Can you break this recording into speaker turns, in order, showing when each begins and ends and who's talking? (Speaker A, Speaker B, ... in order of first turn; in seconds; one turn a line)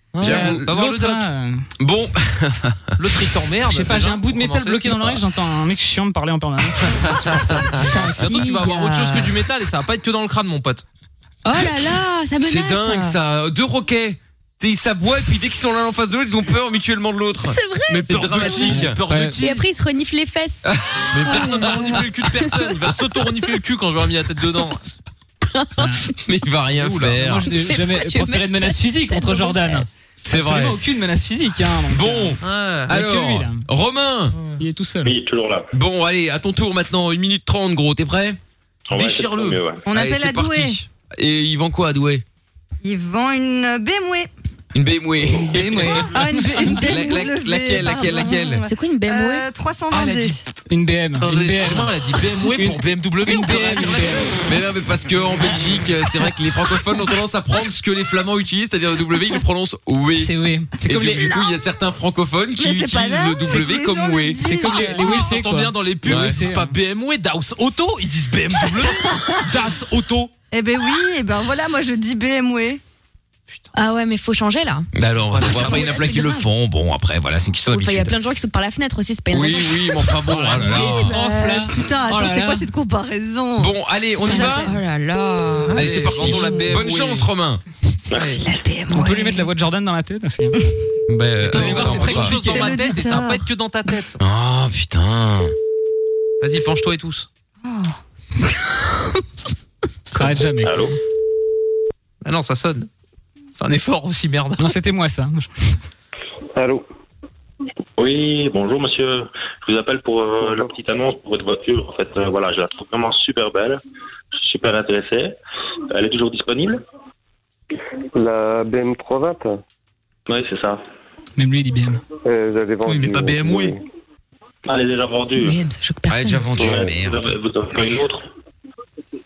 Speaker A: 0.1-1.3
Speaker B: 0.2-0.7
Speaker C: 0.2-1.6
Speaker B: 1.8-3.0
Speaker A: 3.0-5.2
Speaker C: 3.7-7.1
Speaker A: 7.0-7.5
Speaker D: 7.8-9.4
Speaker A: 8.2-10.8
Speaker D: 11.4-13.2
Speaker B: 12.4-19.0
Speaker D: 17.4-18.8
Speaker A: 17.9-19.7
Speaker C: 18.6-19.4
Speaker D: 19.4-20.7
Speaker B: 20.6-22.1
Speaker A: 21.1-25.0
Speaker C: 25.8-26.1
Speaker B: 26.2-27.5
Speaker A: 26.8-27.2
Speaker C: 27.2-33.6
Speaker D: 27.6-29.9
Speaker B: 30.2-30.8
Speaker B: 31.9-34.4
Speaker A: 32.4-32.9
Speaker C: 34.6-35.1
Speaker E: 35.0-35.7
Speaker B: 35.7-38.4
Speaker E: 38.9-39.8
Speaker A: 38.9-39.6
Speaker F: 39.9-40.8
Speaker B: 39.9-42.2
Speaker F: 42.8-44.3
Speaker B: 44.7-46.1
Speaker C: 45.4-46.8
Speaker F: 46.0-50.4
Speaker B: 46.8-48.7
Speaker D: 46.8-47.3
Speaker D: 48.7-49.5
Speaker C: 50.7-52.0
Speaker A: 51.2-54.4
Speaker C: 52.5-54.4
Speaker B: 54.4-64.6
Speaker C: 60.2-61.4
Speaker F: 62.6-65.3
Speaker C: 63.5-66.7
Speaker A: 64.8-70.3
Speaker B: 66.0-66.4
Speaker F: 68.7-69.5
Speaker F: 70.5-72.8
Speaker D: 73.7-76.5
Speaker B: 74.9-78.2
Speaker A: 75.3-76.0
Speaker D: 77.7-80.1
Speaker B: 79.3-81.1
Speaker A: 80.3-80.9
Speaker C: 80.6-82.7
Speaker F: 81.0-83.7
Speaker B: 83.6-84.7
Speaker D: 84.2-86.9
Speaker A: 84.3-84.8
Speaker A: 85.7-87.3
Speaker B: 85.7-87.6
Speaker E: 88.1-88.4
Speaker A: 88.2-88.4
Speaker D: 88.4-89.5
Speaker C: 88.9-90.6
Speaker B: 91.1-92.4
Speaker A: 91.5-94.2
Speaker C: 91.5-92.8
Speaker F: 92.3-93.4
Speaker B: 94.2-95.5
Speaker A: 96.4-97.3
Speaker F: 97.6-98.0
Speaker A: 100.1-100.4
Speaker C: 100.1-100.9
Speaker E: 100.6-101.0
Speaker A: 102.2-102.9
Speaker A: 103.6-104.7
Speaker C: 104.6-105.5
Speaker G: 106.6-106.8
Speaker E: 108.0-113.8
Speaker G: 110.4-110.8
Speaker E: 114.3-115.4
Speaker E: 115.9-116.8
Speaker G: 118.2-119.6
Speaker E: 120.3-120.8
Speaker C: 121.4-122.0
Speaker G: 122.2-123.8
Speaker A: 122.9-123.8
Speaker E: 124.7-125.6
Speaker D: 125.4-126.6
Speaker B: 126.1-127.4
Speaker G: 126.6-126.9
Speaker E: 126.6-128.3